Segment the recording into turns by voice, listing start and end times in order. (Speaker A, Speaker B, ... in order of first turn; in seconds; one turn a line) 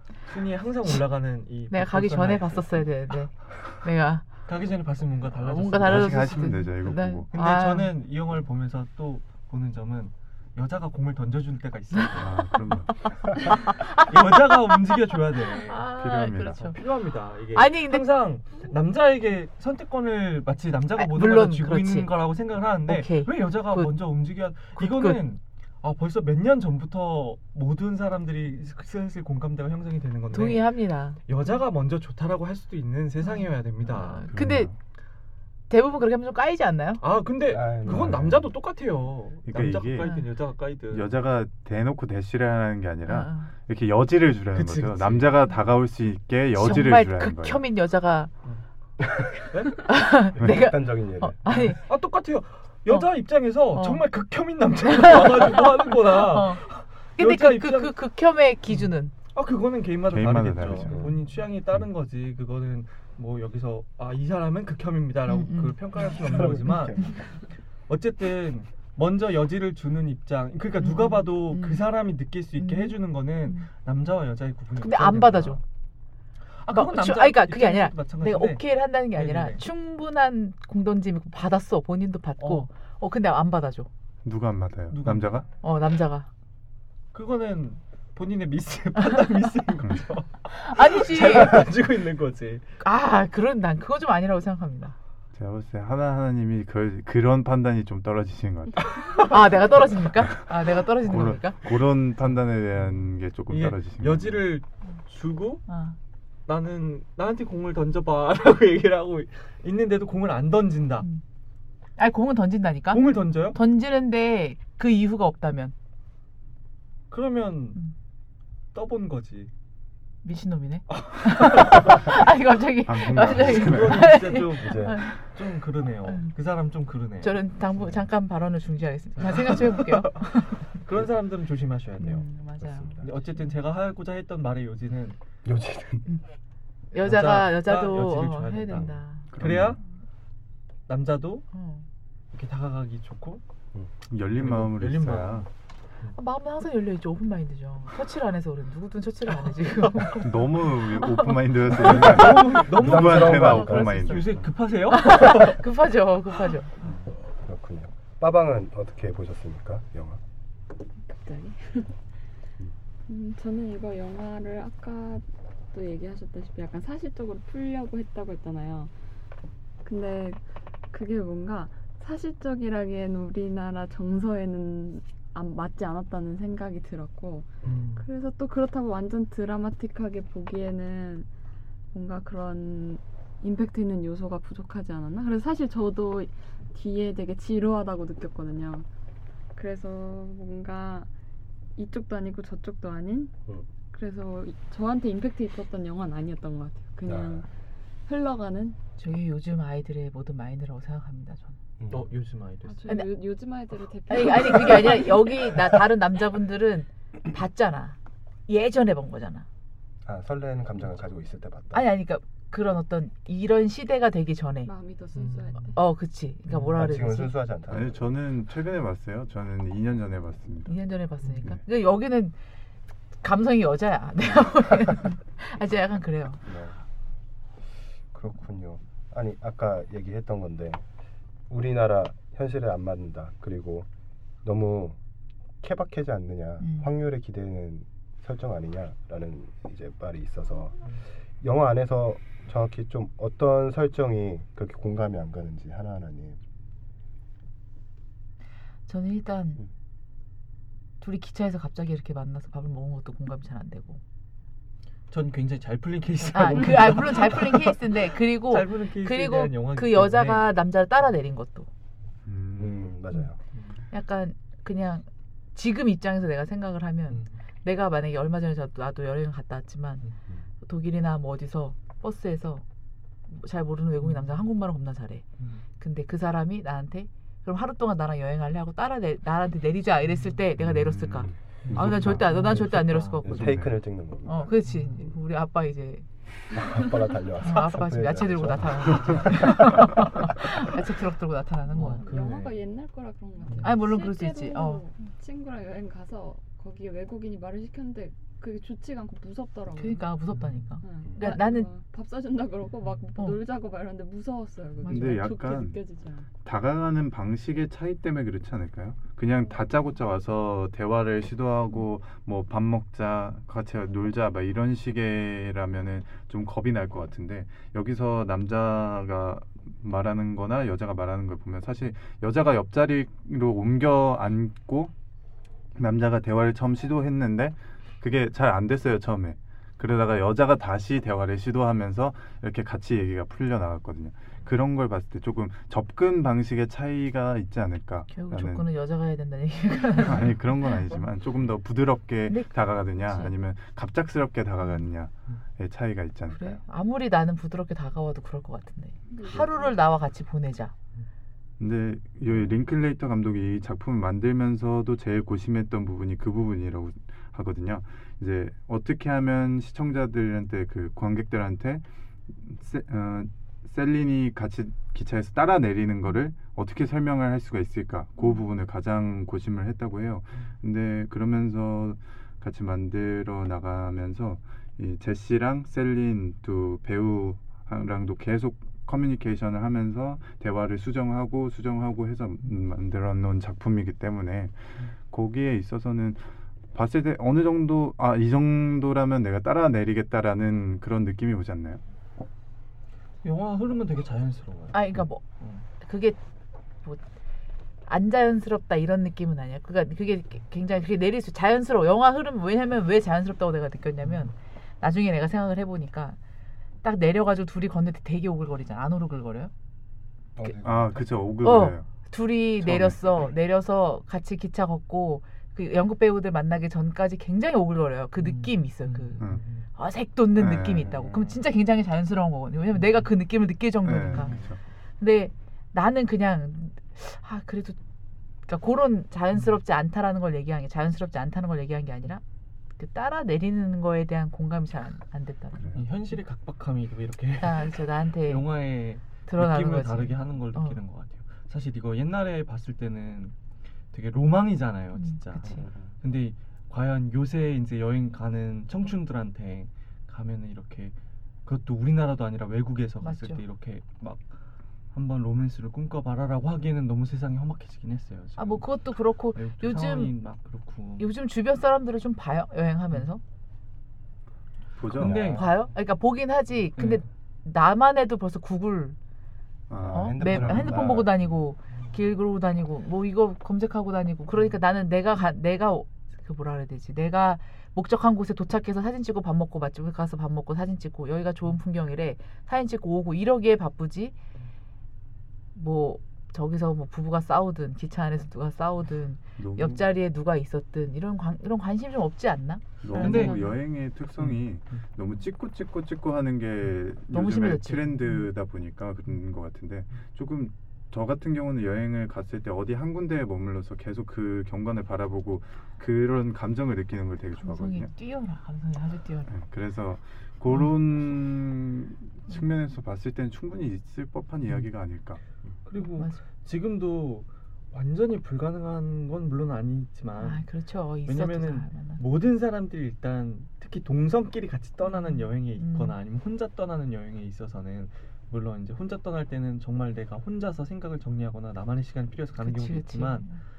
Speaker A: 0.3-2.9
Speaker B: 1.7-4.3
Speaker A: 4.5-6.6
Speaker B: 5.4-8.0
Speaker C: 5.8-7.3
Speaker A: 7.3-12.5
Speaker C: 12.2-12.9
Speaker B: 13.0-14.9
Speaker A: 13.4-15.9
Speaker B: 15.5-16.8
Speaker C: 15.9-16.7
Speaker A: 16.7-30.7
Speaker B: 17.5-18.1
Speaker B: 21.0-22.1
Speaker B: 22.9-24.1
Speaker B: 24.8-25.3
Speaker B: 30.3-31.2
Speaker A: 31.3-34.3
Speaker B: 33.2-34.7
Speaker C: 34.3-34.8
Speaker B: 35.7-37.0
Speaker A: 37.0-41.2
Speaker D: 37.5-38.5
Speaker C: 39.5-40.1
Speaker C: 40.9-47.6
Speaker B: 43.1-43.5
Speaker A: 44.5-45.4
Speaker B: 46.6-48.3
Speaker A: 49.4-49.9
Speaker B: 49.8-51.8
Speaker D: 50.4-51.4
Speaker C: 50.4-50.7
Speaker A: 51.5-58.0
Speaker B: 53.7-54.0
Speaker B: 54.9-56.6
Speaker B: 57.2-59.1
Speaker A: 58.8-67.2
Speaker C: 60.1-61.1
Speaker D: 60.9-61.2
Speaker B: 65.3-66.5
Speaker D: 66.2-67.2
Speaker A: 67.9-75.6
Speaker B: 70.8-71.8
Speaker B: 72.6-73.0
Speaker B: 74.8-75.6
Speaker A: 76.6-79.7
Speaker B: 76.7-83.9
Speaker A: 82.4-82.7
Speaker C: 84.2-85.5
Speaker A: 84.9-85.4
Speaker B: 85.6-86.3
Speaker A: 87.1-92.7
Speaker B: 90.5-91.7
Speaker B: 92.8-95.0
Speaker C: 95.3-99.4
Speaker A: 99.0-99.4
Speaker B: 99.2-101.7
Speaker C: 100.2-104.5
Speaker A: 103.5-105.6
Speaker B: 105.7-106.0
Speaker A: 106.5-111.1
Speaker B: 112.0-115.7
Speaker A: 112.9-113.6
Speaker A: 117.1-117.8
Speaker A: 118.7-119.5
Speaker B: 120.2-125.3
Speaker A: 120.9-122.2
Speaker C: 122.8-124.2
Speaker A: 123.2-127.4
Speaker D: 124.6-125.0
Speaker B: 126.1-126.3
Speaker B: 127.2-130.7
Speaker A: 129.2-132.2
Speaker B: 132.0-133.0
Speaker D: 132.6-133.1
Speaker A: 133.0-135.2
Speaker D: 135.4-136.1
Speaker B: 136.9-139.3
Speaker A: 137.0-139.8
Speaker C: 139.3-139.8
Speaker A: 140.9-141.5
Speaker B: 141.5-141.9
Speaker A: 142.3-143.4
Speaker C: 144.1-145.5
Speaker A: 144.4-145.5
Speaker B: 146.2-152.3
Speaker A: 149.7-150.1
Speaker C: 150.1-154.4
Speaker A: 151.7-155.6
Speaker D: 152.4-154.4
Speaker B: 154.9-156.7
Speaker D: 156.8-160.2
Speaker E: 161.0-162.0
Speaker E: 163.1-168.9
Speaker E: 169.8-181.3
Speaker A: 177.6-178.1
Speaker E: 181.9-188.9
Speaker E: 189.6-191.1
Speaker E: 191.8-193.3
Speaker E: 193.9-197.5
Speaker D: 197.1-197.5
Speaker E: 198.1-198.8
Speaker B: 199.0-201.6
Speaker D: 201.8-202.1
Speaker A: 201.9-203.1
Speaker E: 202.7-205.3
Speaker B: 204.1-208.0
Speaker B: 208.5-209.5
Speaker D: 210.0-211.9
Speaker B: 211.7-214.7
Speaker E: 214.6-215.8
Speaker A: 215.2-215.7
Speaker B: 215.8-217.3
Speaker D: 216.7-218.0
Speaker C: 217.7-220.8
Speaker B: 220.7-222.3
Speaker B: 223.2-226.4
Speaker D: 226.4-226.8
Speaker D: 228.1-230.8
Speaker D: 231.5-233.9
Speaker D: 234.4-235.0
Speaker D: 235.6-240.9
Speaker B: 236.6-236.9
Speaker D: 241.4-246.4
Speaker B: 248.9-249.6
Speaker B: 251.0-254.0
Speaker A: 255.1-260.5
Speaker B: 256.3-261.7
Speaker C: 262.3-262.9
Speaker D: 262.6-263.4
Speaker B: 263.9-270.1
Speaker A: 267.1-267.4
Speaker B: 270.6-272.6
Speaker B: 273.3-275.2
Speaker A: 274.0-274.4
Speaker B: 275.8-283.5
Speaker C: 280.6-282.3
Speaker A: 281.6-283.3
Speaker D: 283.2-284.6
Speaker C: 283.3-283.8
Speaker B: 284.3-286.1
Speaker D: 286.5-290.5
Speaker B: 287.4-292.1
Speaker A: 291.7-292.6
Speaker E: 292.0-300.1
Speaker A: 293.4-293.7
Speaker B: 293.6-294.8
Speaker B: 299.8-301.7
Speaker A: 300.3-300.7
Speaker E: 300.8-306.3
Speaker B: 304.8-305.2
Speaker C: 304.9-305.8
Speaker C: 306.4-324.9
Speaker C: 325.8-338.7
Speaker B: 338.1-340.8
Speaker C: 340.0-346.6
Speaker B: 342.3-343.3
Speaker B: 346.3-350.7
Speaker E: 349.1-349.8
Speaker C: 351.6-391.8
Speaker A: 393.2-395.6
Speaker B: 394.7-395.2
Speaker B: 395.8-396.2
Speaker B: 397.9-406.2
Speaker B: 406.8-409.5
Speaker D: 410.4-411.1
Speaker C: 410.6-411.9
Speaker B: 411.4-424.4
Speaker C: 412.6-413.2
Speaker A: 418.2-419.7
Speaker C: 420.4-421.1
Speaker A: 422.8-423.1
Speaker C: 423.8-424.6
Speaker B: 425.0-427.8
Speaker B: 428.5-432.2
Speaker B: 432.8-435.9
Speaker C: 435.6-435.8
Speaker A: 435.7-443.4
Speaker B: 437.4-438.5
Speaker B: 439.3-440.8
Speaker A: 443.9-454.3
Speaker B: 445.0-445.7
Speaker B: 453.0-453.4
Speaker A: 454.9-458.8
Speaker B: 458.4-460.1
Speaker A: 459.3-461.1
Speaker B: 461.0-463.2
Speaker C: 464.8-465.4
Speaker A: 464.9-465.6
Speaker B: 465.0-469.0
Speaker A: 466.8-467.0
Speaker C: 469.7-471.0
Speaker D: 469.8-471.1
Speaker B: 469.9-484.2
Speaker B: 485.6-493.5
Speaker C: 489.4-489.8
Speaker C: 492.8-507.9
Speaker A: 492.9-493.5
Speaker B: 497.1-498.3
Speaker B: 507.4-509.3
Speaker C: 509.3-515.2
Speaker A: 515.7-520.4
Speaker B: 520.2-522.0
Speaker A: 521.1-533.3
Speaker B: 524.8-526.0
Speaker B: 532.4-533.4